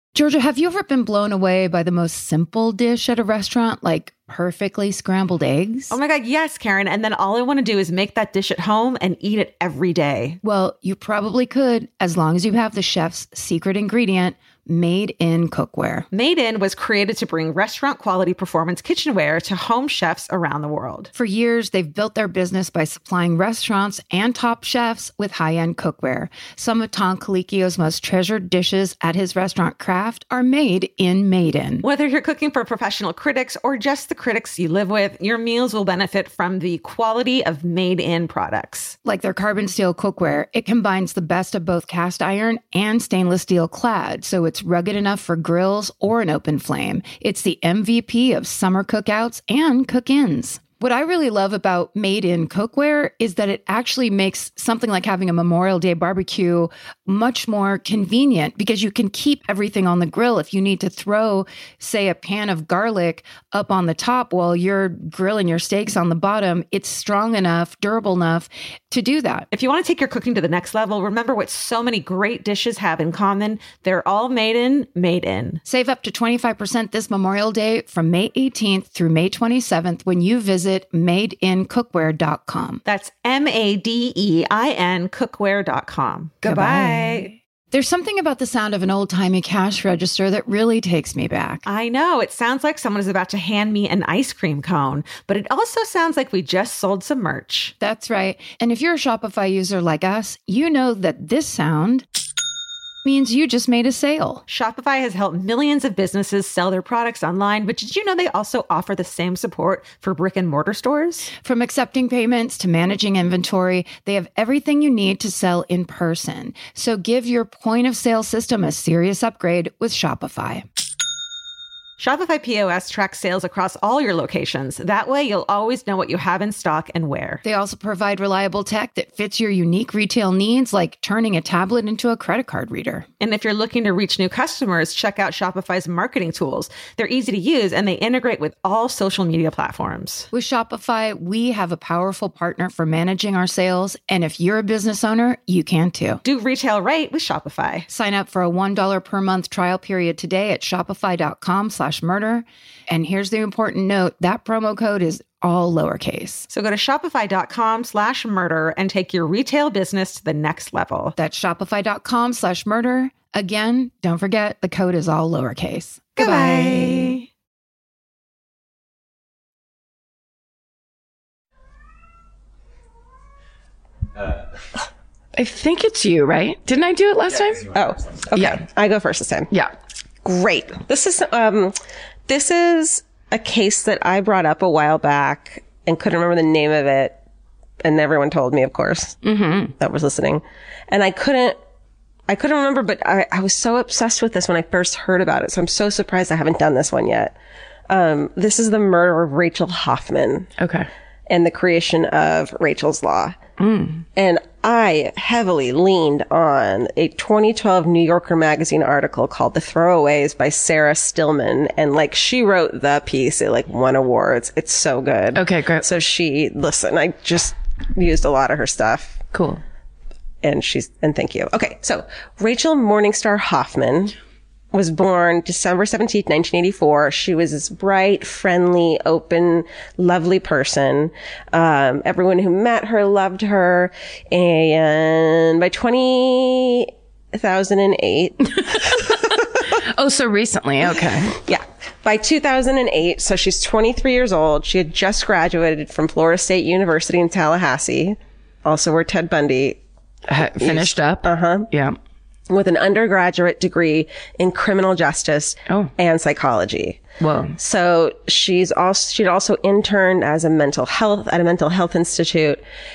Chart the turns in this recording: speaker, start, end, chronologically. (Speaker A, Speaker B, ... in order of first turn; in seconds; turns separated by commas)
Speaker A: 0.1-6.0, Speaker B: 5.9-10.4, Speaker A: 10.4-16.1, Speaker B: 16.1-21.1, Speaker A: 21.1-31.8, Speaker B: 31.8-39.0, Speaker A: 39.0-69.5, Speaker B: 69.5-75.6, Speaker A: 75.7-82.8, Speaker B: 82.8-87.3, Speaker A: 86.4-91.6, Speaker B: 91.6-97.7, Speaker A: 97.8-102.0, Speaker A: 103.0-104.4, Speaker B: 104.5-111.3, Speaker A: 111.4-120.6, Speaker B: 122.0-127.4, Speaker A: 127.4-133.1, Speaker B: 133.2-140.3, Speaker A: 140.3-146.2, Speaker B: 146.2-147.8, Speaker A: 147.9-156.4, Speaker B: 156.5-161.2, Speaker A: 161.2-167.2, Speaker B: 166.2-167.3, Speaker C: 175.3-177.7, Speaker D: 177.7-179.5, Speaker C: 178.3-178.6, Speaker D: 180.2-181.7, Speaker D: 182.3-187.2, Speaker D: 187.8-189.2, Speaker C: 189.2-189.7, Speaker D: 189.8-191.6, Speaker D: 192.3-197.3, Speaker D: 197.9-200.5, Speaker C: 200.6-200.9, Speaker D: 201.3-203.3, Speaker C: 203.6-204.0, Speaker D: 204.2-219.2, Speaker C: 215.3-215.8, Speaker C: 219.3-219.6, Speaker D: 220.4-224.1, Speaker D: 224.7-239.2, Speaker C: 238.7-241.4, Speaker D: 241.3-249.8, Speaker C: 250.3-252.0, Speaker D: 250.6-251.7, Speaker D: 252.5-257.0, Speaker C: 257.2-257.6, Speaker D: 257.6-262.6